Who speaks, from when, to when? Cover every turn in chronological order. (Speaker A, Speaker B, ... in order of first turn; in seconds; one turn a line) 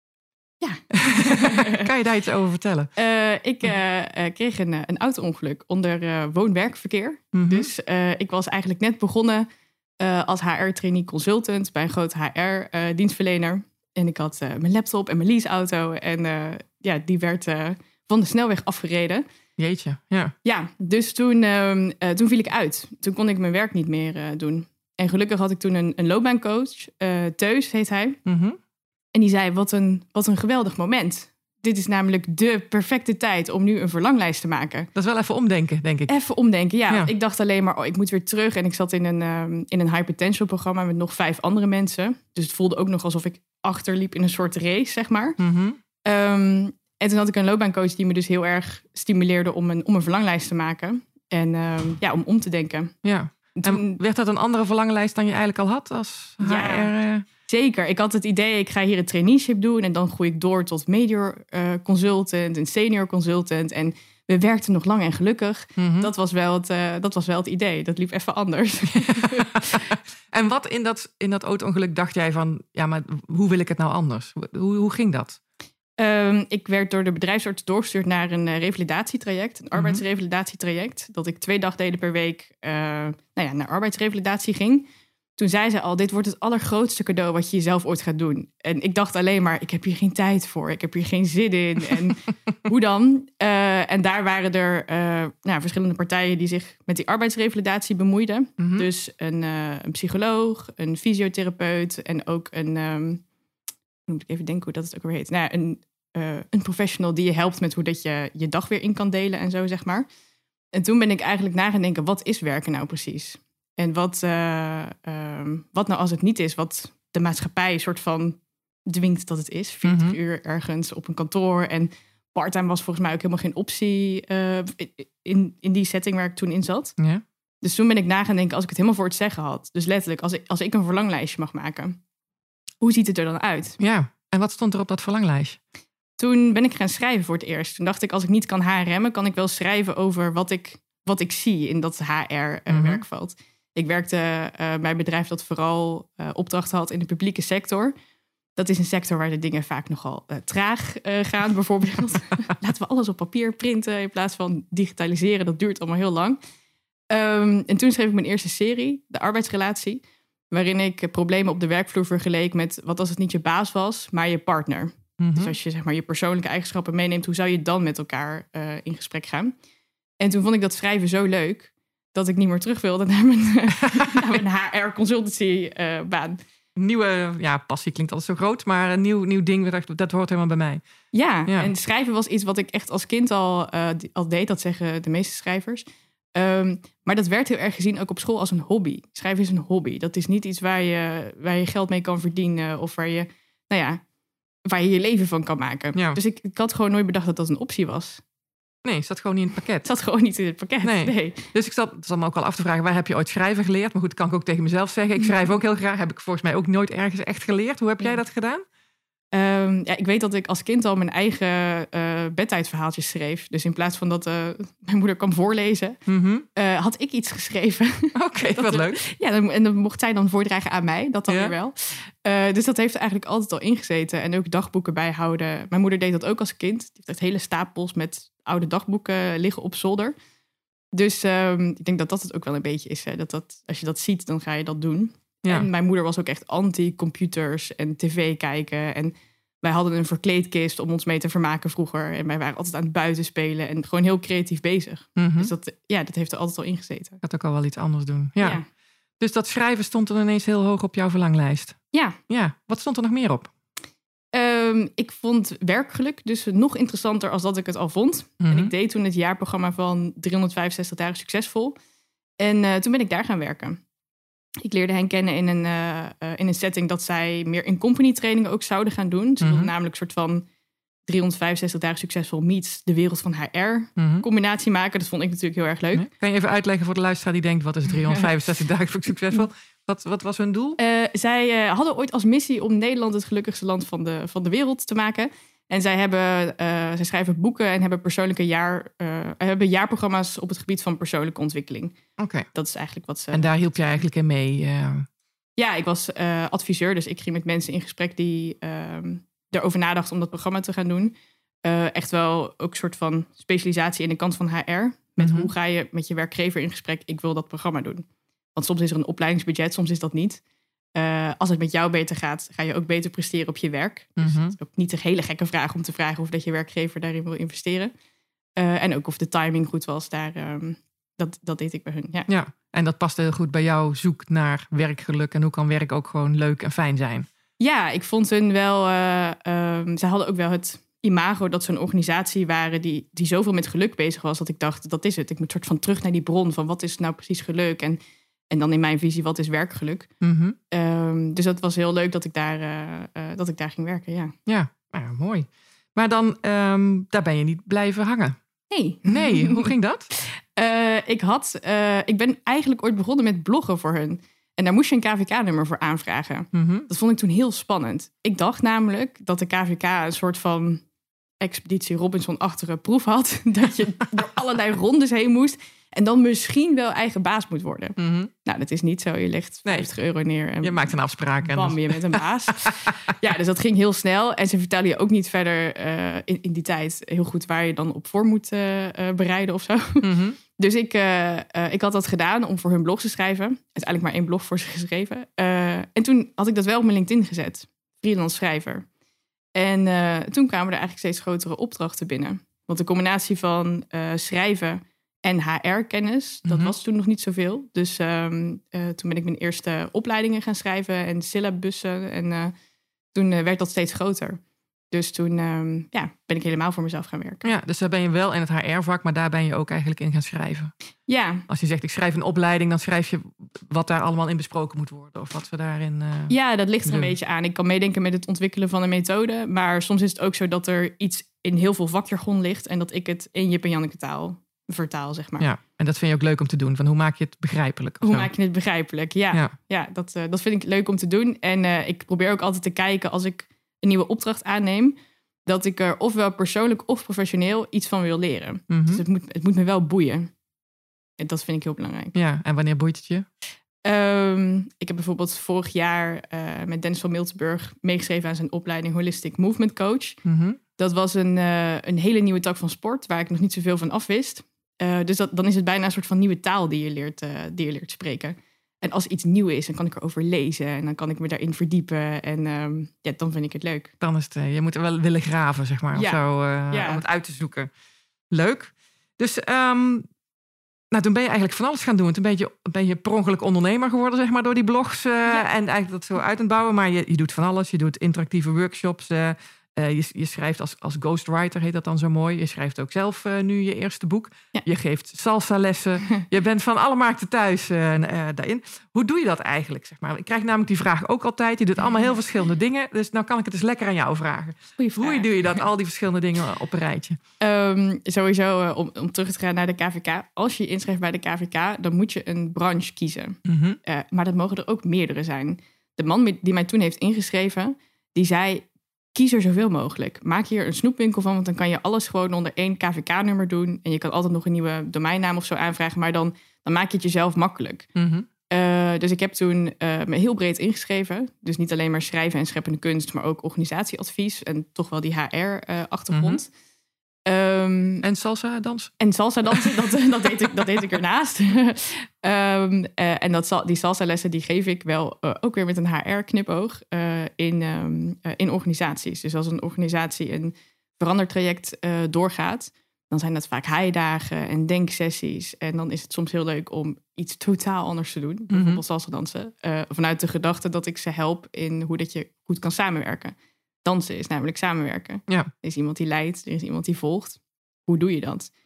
Speaker A: 0.6-1.9
Speaker B: 0.9-2.9
Speaker A: 3.0-9.5
Speaker B: 7.3-7.7
Speaker A: 10.0-19.2
Speaker B: 19.6-20.4
Speaker A: 20.4-28.2
Speaker B: 28.3-28.6
Speaker A: 29.1-34.9
Speaker B: 35.0-36.1
Speaker A: 36.1-45.4
Speaker B: 45.4-45.8
Speaker A: 46.0-53.0
Speaker B: 53.0-57.3
Speaker A: 53.6-54.0
Speaker A: 56.4-56.9
Speaker A: 57.5-70.0
Speaker B: 65.8-66.1
Speaker B: 68.9-75.4
Speaker A: 76.0-84.9
Speaker B: 79.8-80.0
Speaker A: 85.4-103.2
Speaker B: 98.6-98.9
Speaker A: 104.1-110.1
Speaker A: 110.7-127.0
Speaker B: 119.8-120.2
Speaker B: 127.0-127.2
Speaker A: 127.6-132.0
Speaker A: 132.8-133.8
Speaker B: 133.8-135.6
Speaker A: 136.2-147.9
Speaker B: 142.7-143.0
Speaker A: 148.6-156.4
Speaker A: 157.1-169.5
Speaker B: 165.2-165.5
Speaker A: 170.2-176.4
Speaker B: 173.9-174.4
Speaker B: 176.8-180.8
Speaker A: 181.1-185.8
Speaker A: 186.3-194.0
Speaker A: 194.7-198.2
Speaker B: 198.8-199.9
Speaker A: 199.8-201.5
Speaker B: 200.8-208.6
Speaker A: 209.3-216.0
Speaker B: 216.1-216.5
Speaker A: 216.6-230.2
Speaker B: 218.2-219.0
Speaker B: 221.3-221.6
Speaker A: 230.9-247.2
Speaker B: 245.2-245.5
Speaker B: 247.2-248.6
Speaker A: 248.4-248.7
Speaker B: 249.2-253.5
Speaker A: 251.9-252.2
Speaker A: 254.3-261.8
Speaker B: 258.4-258.7
Speaker A: 262.4-263.8
Speaker A: 264.6-270.4
Speaker B: 269.4-269.7
Speaker A: 271.1-276.1
Speaker B: 274.0-274.2
Speaker B: 275.9-280.8
Speaker A: 280.8-291.9
Speaker B: 292.2-292.5
Speaker A: 292.5-293.5
Speaker B: 293.3-295.1
Speaker A: 295.6-310.4
Speaker B: 305.2-305.5
Speaker A: 310.9-317.9
Speaker B: 314.2-314.6
Speaker A: 318.6-322.3
Speaker B: 322.3-327.3
Speaker A: 327.6-338.0
Speaker A: 338.5-340.1
Speaker B: 340.2-340.6
Speaker A: 340.7-344.4
Speaker B: 344.5-348.4
Speaker A: 348.7-360.8
Speaker B: 349.1-350.1
Speaker B: 356.5-356.9
Speaker A: 361.4-370.9
Speaker B: 368.0-368.3
Speaker B: 370.6-372.0
Speaker A: 371.4-388.9
Speaker B: 380.0-380.4
Speaker A: 389.6-402.5
Speaker B: 396.5-396.7
Speaker A: 403.1-404.4
Speaker A: 404.9-407.5
Speaker B: 407.4-410.7
Speaker A: 411.1-411.5
Speaker B: 411.5-416.4
Speaker A: 416.3-425.5
Speaker B: 416.9-417.1
Speaker B: 425.4-428.3
Speaker A: 428.0-440.3
Speaker B: 438.7-439.0
Speaker A: 441.2-442.1
Speaker B: 442.1-443.3
Speaker A: 443.9-450.2
Speaker B: 450.2-450.6
Speaker A: 450.8-463.9
Speaker B: 464.0-467.7
Speaker A: 465.9-467.0
Speaker B: 468.3-470.1
Speaker B: 470.9-497.2
Speaker A: 494.8-495.6
Speaker A: 497.4-517.9
Speaker B: 503.5-503.8
Speaker B: 518.0-518.3
Speaker A: 518.5-526.5
Speaker B: 526.1-526.4
Speaker A: 527.3-528.0
Speaker B: 528.0-529.0
Speaker A: 529.0-558.5
Speaker B: 548.5-548.8